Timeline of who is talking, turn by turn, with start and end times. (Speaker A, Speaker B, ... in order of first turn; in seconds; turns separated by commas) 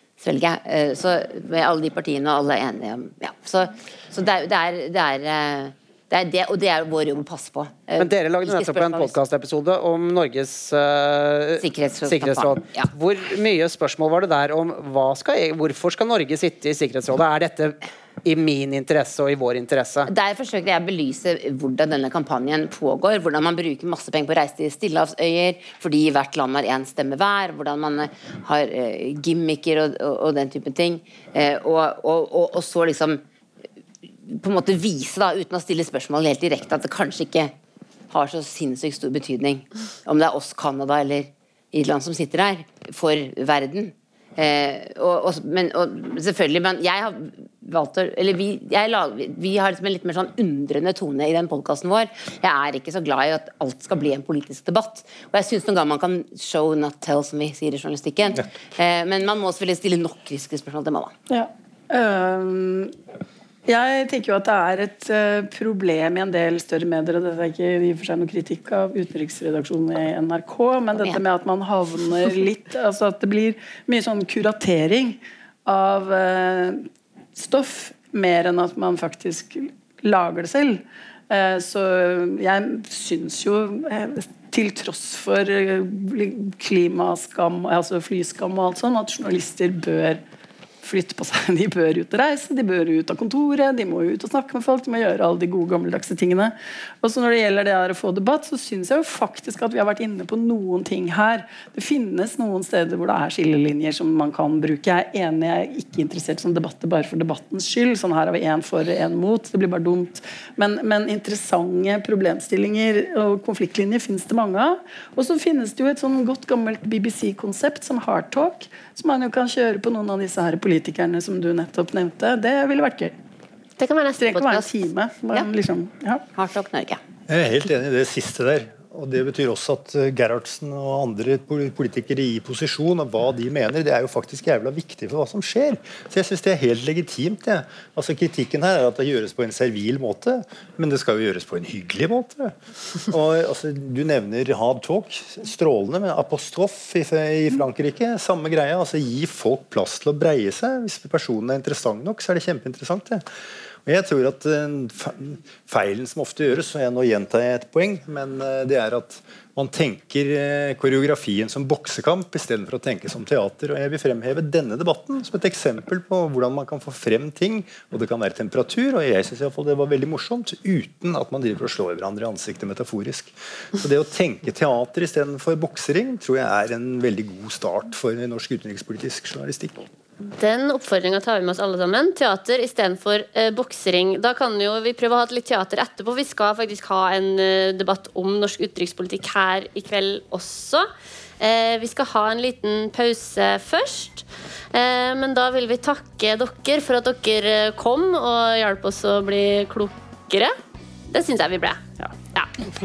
Speaker A: 0.2-9.1, Speaker B: 8.0-20.1, Speaker A: 11.6-12.9, Speaker A: 20.1-33.2, Speaker A: 34.3-37.5, Speaker A: 38.1-61.1, Speaker C: 61.3-62.9, Speaker C: 63.6-90.2, Speaker C: 90.8-123.1, Speaker D: 123.8-124.7, Speaker C: 124.2-126.2, Speaker A: 126.3-127.0, Speaker E: 127.3-142.5, Speaker E: 143.1-153.2, Speaker E: 153.8-179.9, Speaker D: 180.3-190.9, Speaker D: 191.4-200.5, Speaker D: 201.1-201.8